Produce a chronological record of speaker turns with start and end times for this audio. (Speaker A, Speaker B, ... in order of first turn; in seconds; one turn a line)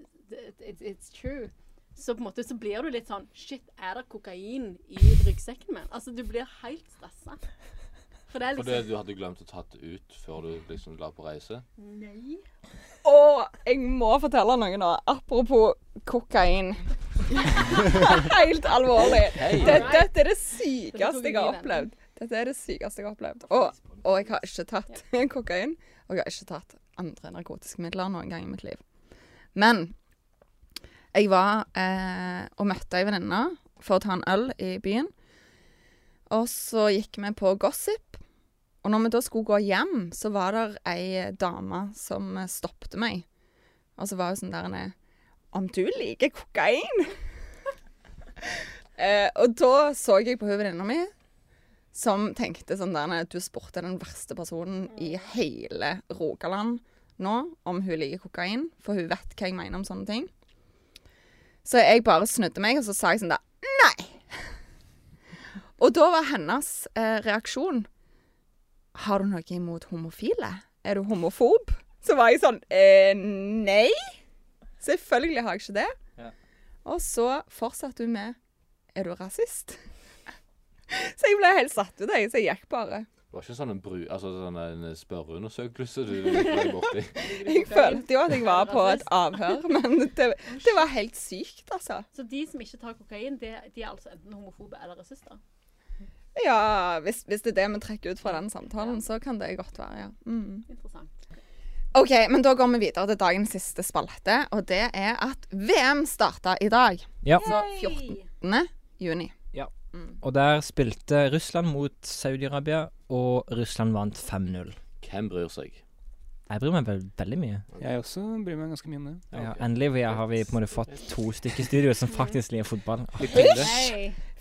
Speaker A: 0.2-7.4
Speaker A: 8.3-8.9
Speaker B: 8.5-11.6
Speaker A: 11.8-12.4
Speaker C: 13.0-28.8
Speaker B: 18.9-20.0
Speaker A: 19.6-20.2
Speaker A: 20.9-21.9
Speaker C: 29.5-29.9
Speaker C: 31.1-35.1
Speaker C: 36.3-38.2
Speaker C: 38.8-43.2
Speaker C: 44.0-44.9
Speaker C: 45.5-47.2
Speaker C: 48.4-51.1
Speaker C: 51.9-60.3
Speaker A: 54.9-55.3
Speaker C: 61.6-64.5
Speaker C: 65.8-67.9
Speaker C: 68.9-74.1
Speaker C: 74.8-75.9
Speaker C: 76.8-78.3
Speaker C: 78.9-79.8
Speaker C: 80.9-83.1
Speaker B: 83.3-87.3
Speaker A: 86.3-89.1
Speaker C: 87.3-92.0
Speaker A: 90.5-90.8
Speaker A: 92.1-95.4
Speaker C: 96.3-100.7
Speaker A: 98.2-99.0
Speaker A: 100.7-101.4
Speaker C: 101.9-109.3
Speaker A: 107.4-108.3
Speaker D: 109.5-114.8
Speaker B: 115.0-115.8
Speaker D: 116.5-117.7
Speaker E: 117.8-119.2
Speaker B: 119.3-120.5
Speaker D: 119.3-123.9
Speaker A: 122.1-122.4
Speaker E: 123.2-123.9
Speaker A: 123.3-124.2